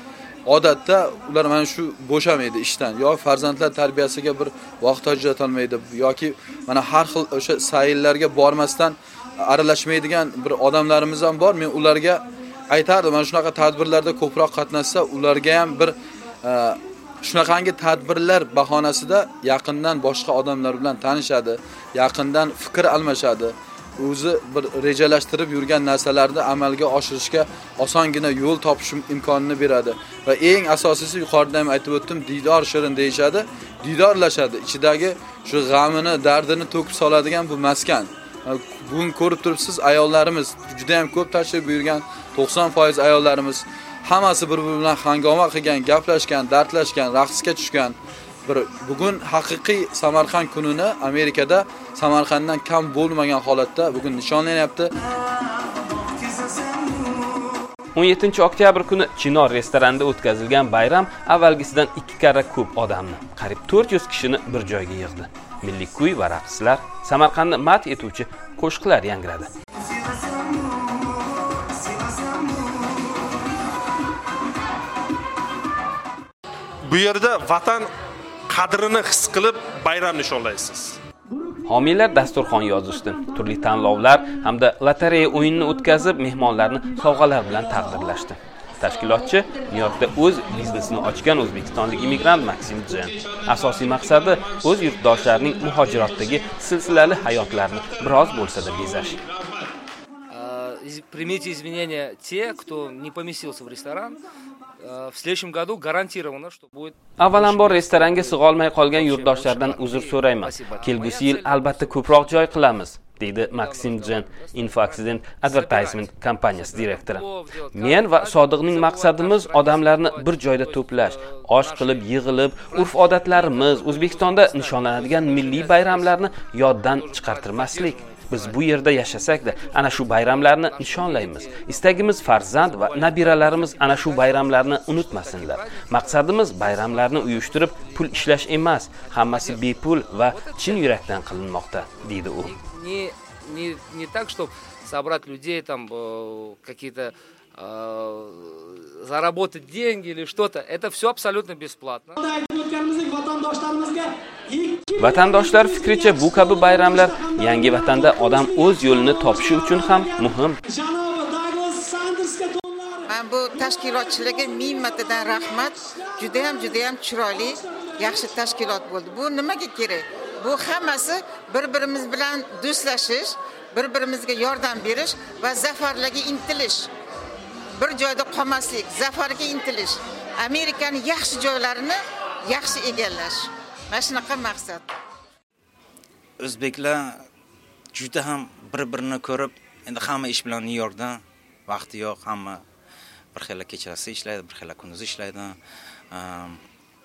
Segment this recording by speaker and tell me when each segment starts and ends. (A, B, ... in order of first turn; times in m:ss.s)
0:00.5-0:54.9 A
0:58.0-1:09.5 B
1:16.9-1:17.9 C
1:18.5-1:21.0 C
1:21.7-1:39.2 B
1:40.3-1:44.2 D
1:44.8-1:52.7 D
1:47.2-2:22.6 B
1:53.4-2:02.1 D
2:02.6-2:06.3 D
2:06.9-2:18.0 D
2:19.0-2:20.9 D
2:22.4-2:32.1 D
2:32.2-2:40.1 E
2:35.0-2:40.6 B
2:40.6-2:43.0 E
2:43.1-2:56.9 F
2:43.6-2:44.5 E
2:46.2-2:46.6 E
2:57.8-3:02.0 F
3:02.5-3:04.8 F
3:06.4-3:07.2 G
3:07.9-3:12.6 G
3:13.4-3:15.6 G
3:16.1-3:16.6 G